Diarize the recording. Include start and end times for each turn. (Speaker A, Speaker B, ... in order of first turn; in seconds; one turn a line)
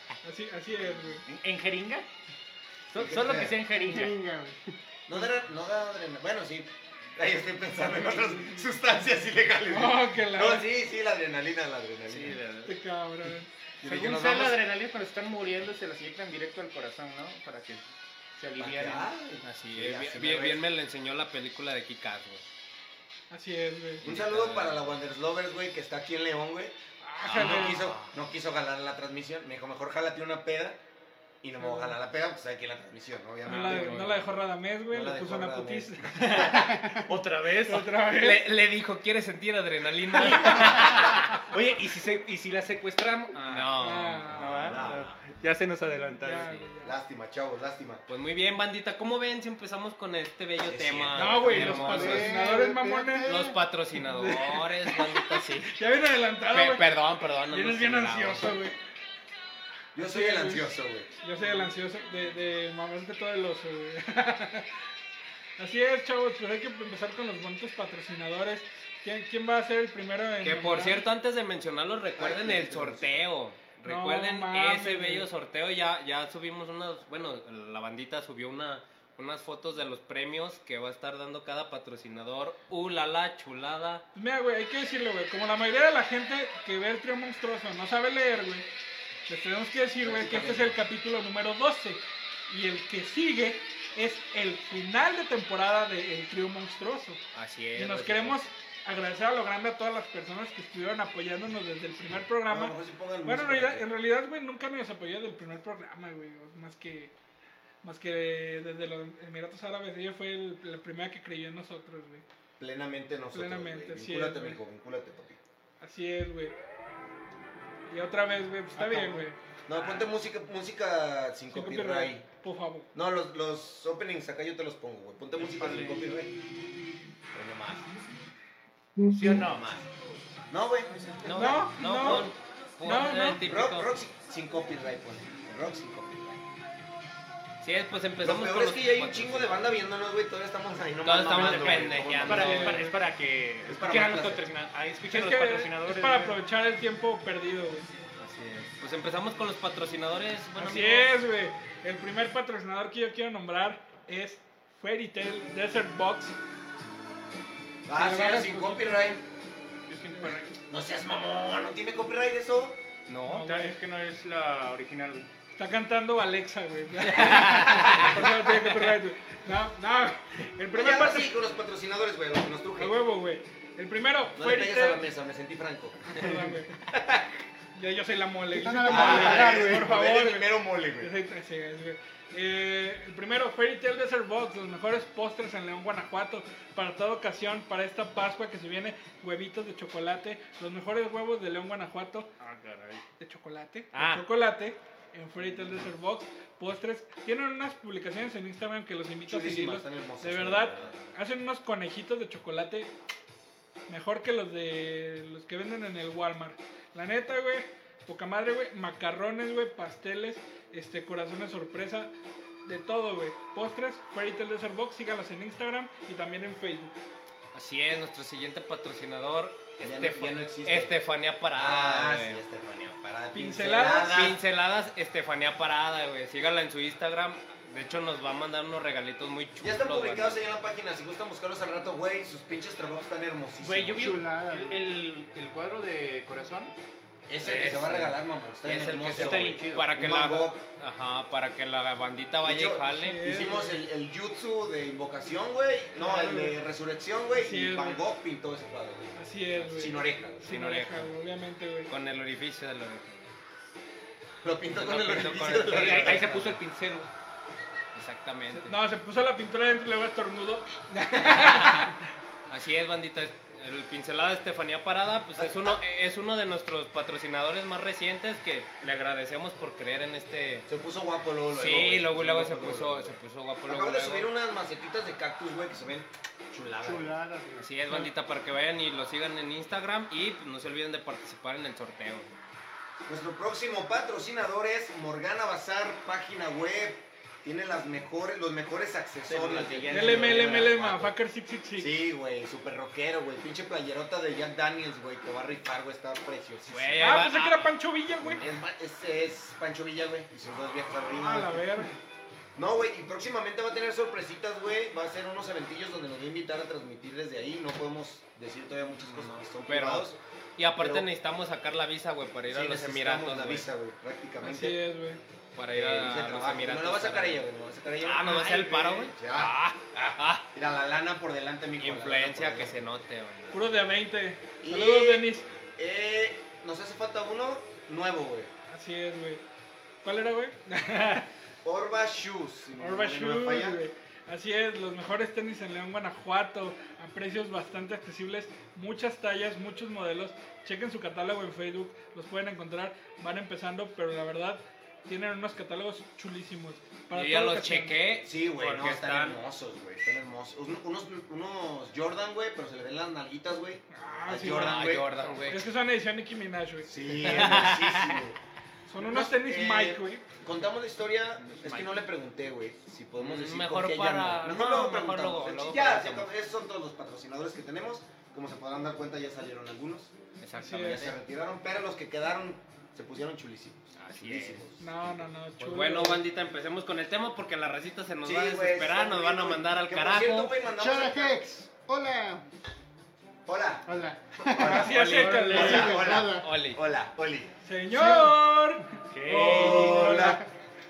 Speaker A: 0.2-1.2
Speaker B: 1.1-2.0
Speaker B: 2.9-4.1
Speaker C: 2.9-3.6
Speaker D: 3.7-4.7
Speaker C: 5.1-12.4
Speaker A: 7.8-8.7
Speaker A: 9.7-10.7
Speaker B: 12.1-12.7
Speaker A: 12.6-13.5
Speaker C: 13.8-14.6
Speaker B: 13.8-19.1
Speaker C: 18.6-20.6
Speaker E: 19.4-22.5
Speaker A: 23.3-24.0
Speaker E: 24.0-24.9
Speaker C: 24.0-30.8
Speaker A: 27.0-27.8
Speaker E: 27.3-28.0
Speaker C: 31.4-34.1
Speaker A: 31.6-31.9
Speaker A: 33.5-36.9
Speaker E: 33.5-34.3
Speaker C: 34.9-36.3
Speaker B: 36.1-37.9
Speaker A: 37.6-38.5
Speaker E: 38.0-41.4
Speaker B: 40.2-43.8
Speaker E: 43.4-44.8
Speaker A: 43.8-44.8
Speaker B: 44.3-46.5
Speaker C: 44.6-45.2
Speaker A: 46.2-47.0
Speaker C: 46.8-48.0
Speaker E: 48.1-52.5
Speaker C: 50.6-52.3
Speaker A: 51.1-53.3
Speaker D: 51.5-53.5
Speaker E: 53.2-55.7
Speaker A: 54.0-56.8
Speaker E: 56.5-58.6
Speaker A: 57.5-58.8
Speaker C: 59.9-61.1
Speaker A: 60.0-64.7
Speaker A: 65.6-71.0
Speaker E: 70.4-84.0
Speaker C: 72.2-73.2
Speaker A: 73.8-75.3
Speaker A: 84.1-88.7
Speaker A: 89.3-97.2
Speaker C: 90.0-90.8
Speaker E: 97.3-98.4
Speaker A: 97.7-107.1
Speaker C: 102.5-103.9
Speaker A: 107.8-112.2
Speaker C: 112.6-115.4
Speaker A: 113.3-114.6
Speaker A: 115.8-116.5
Speaker A: 117.9-119.4
Speaker B: 118.7-119.3
Speaker C: 119.7-122.2
Speaker B: 119.8-120.0
Speaker A: 121.5-122.9
Speaker C: 122.9-126.3
Speaker B: 125.4-126.1
Speaker C: 127.3-128.0
Speaker B: 129.1-129.6
Speaker C: 129.3-129.9
Speaker C: 130.5-131.7
Speaker E: 131.2-133.9
Speaker A: 131.3-133.4
Speaker C: 133.4-136.4
Speaker E: 137.6-139.7
Speaker C: 138.2-142.7
Speaker E: 141.0-142.8
Speaker B: 141.3-146.4
Speaker A: 142.3-142.9
Speaker C: 143.7-144.5
Speaker A: 145.1-147.9
Speaker E: 148.2-151.2
Speaker A: 150.6-156.3
Speaker C: 157.8-159.2
Speaker A: 157.9-159.2
Speaker B: 159.9-160.5
Speaker C: 160.7-162.8
Speaker E: 163.1-163.4
Speaker B: 163.2-165.3
Speaker A: 163.3-163.8
Speaker A: 165.6-171.3
Speaker E: 167.1-168.7
Speaker C: 170.7-173.0
Speaker A: 172.8-175.0
Speaker C: 174.3-177.2
Speaker A: 176.1-176.7
Speaker A: 177.7-192.3
Speaker D: 178.5-179.9
Speaker C: 178.8-181.1
Speaker B: 192.4-193.0
Speaker A: 193.2-202.9
Speaker B: 193.9-194.2
Speaker C: 199.3-200.9
Speaker A: 203.9-212.1
Speaker A: 212.7-216.9
Speaker E: 217.5-222.4
Speaker C: 219.8-220.9
Speaker C: 221.6-224.4
Speaker A: 223.3-224.2
Speaker E: 224.0-230.4
Speaker C: 229.6-234.1
Speaker B: 233.6-236.7
Speaker D: 233.9-234.9
Speaker C: 237.3-240.6
Speaker E: 237.4-243.2
Speaker B: 237.6-237.8
Speaker B: 238.9-239.9
Speaker C: 242.4-249.1
Speaker A: 242.9-243.8
Speaker A: 246.0-246.6
Speaker A: 247.3-248.0
Speaker A: 249.2-251.9
Speaker C: 249.7-250.4
Speaker E: 250.4-251.1
Speaker E: 251.9-253.3
Speaker C: 254.4-256.4
Speaker E: 254.7-256.6
Speaker B: 255.7-257.1
Speaker E: 257.9-258.8
Speaker A: 258.5-261.9
Speaker E: 261.2-261.9
Speaker E: 262.5-270.7
Speaker C: 265.4-265.8
Speaker C: 270.7-277.2
Speaker E: 271.5-274.3
Speaker D: 276.8-278.1
Speaker E: 277.6-282.3
Speaker C: 283.1-291.1
Speaker B: 289.3-291.1
Speaker A: 289.9-291.9
Speaker C: 291.8-297.2
Speaker E: 296.7-297.7
Speaker A: 297.0-298.4
Speaker C: 298.2-301.8
Speaker A: 301.1-301.9
Speaker C: 302.6-310.2
Speaker E: 309.6-313.7
Speaker C: 310.8-311.1
Speaker C: 312.5-314.8
Speaker A: 314.4-315.2
Speaker E: 315.6-317.5
Speaker C: 315.7-319.5
Speaker E: 318.0-320.5
Speaker C: 320.5-322.7
Speaker E: 321.8-323.8
Speaker A: 323.5-325.5
Speaker C: 324.6-328.5
Speaker A: 328.7-329.4
Speaker A: 330.0-331.3
Speaker C: 331.6-333.8
Speaker A: 332.8-347.9
Speaker E: 347.1-349.4
Speaker C: 348.2-355.1
Speaker A: 353.9-357.6
Speaker E: 354.4-355.6
Speaker C: 356.9-358.4
Speaker E: 357.2-358.2
Speaker A: 358.9-360.2
Speaker C: 359.0-370.1
Speaker B: 361.4-361.9
Speaker E: 363.2-366.3
Speaker E: 370.4-371.1
Speaker A: 370.6-371.1
Speaker C: 370.7-375.0
Speaker E: 373.9-374.6
Speaker A: 374.8-376.2
Speaker E: 375.6-380.5
Speaker C: 378.2-381.4
Speaker D: 380.7-382.4
Speaker C: 383.4-383.9
Speaker D: 383.9-386.5
Speaker C: 384.4-387.5
Speaker A: 384.6-386.1
Speaker E: 385.8-386.8
Speaker A: 387.6-390.4
Speaker D: 387.9-388.4
Speaker B: 389.1-390.1
Speaker C: 389.3-390.4
Speaker D: 389.9-390.4